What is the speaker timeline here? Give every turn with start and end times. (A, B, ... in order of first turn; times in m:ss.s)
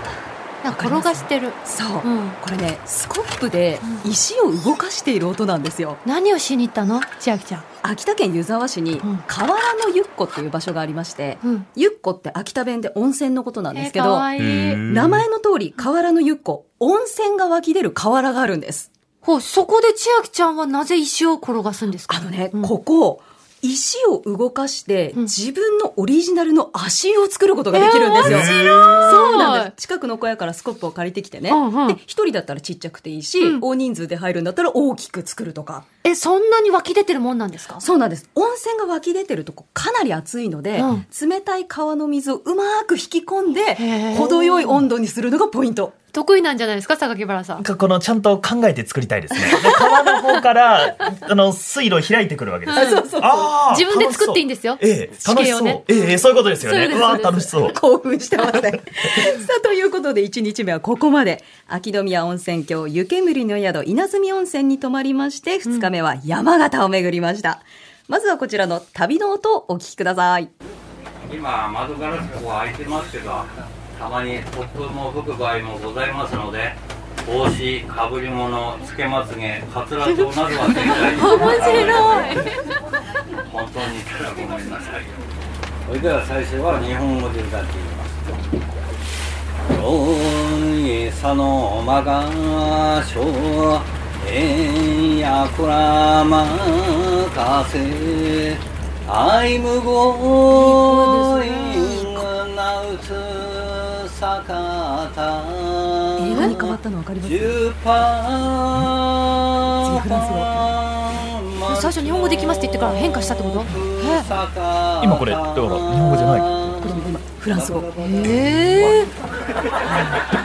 0:00.6-0:02.4 A
0:00.8-0:06.0 B
0:06.0-0:07.6 A
0:07.8-0:14.4 B
0:13.7-0:14.8 A
0:14.4-0:15.3 C
0:14.9-0:18.9 B
0:19.2-0:22.7 A
0:22.1-0:35.8 B
0:27.7-0:29.7 A
0:28.2-0:29.2 C
0:31.5-0:32.0 A
0:36.0-0:37.8 A
0:37.8-0:46.0 B
0:43.8-0:44.7 A
0:46.1-0:47.6 A
0:47.6-0:57.8 C
0:49.4-0:49.9 B
0:52.7-0:53.6 B
0:52.7-0:53.0 A
0:53.7-0:57.5 A
0:57.6-1:10.5 B
1:11.2-1:22.6 D
1:21.2-1:22.4 A
1:23.4-1:25.2 D
1:25.9-1:28.4 D
1:29.7-1:59.1 D
1:40.5-1:42.0 B
1:46.2-1:47.6 B
1:49.8-1:50.7 B
1:51.7-1:54.3 A
1:55.0-1:56.5 C
1:56.8-1:57.9 B
1:58.0-1:59.1 A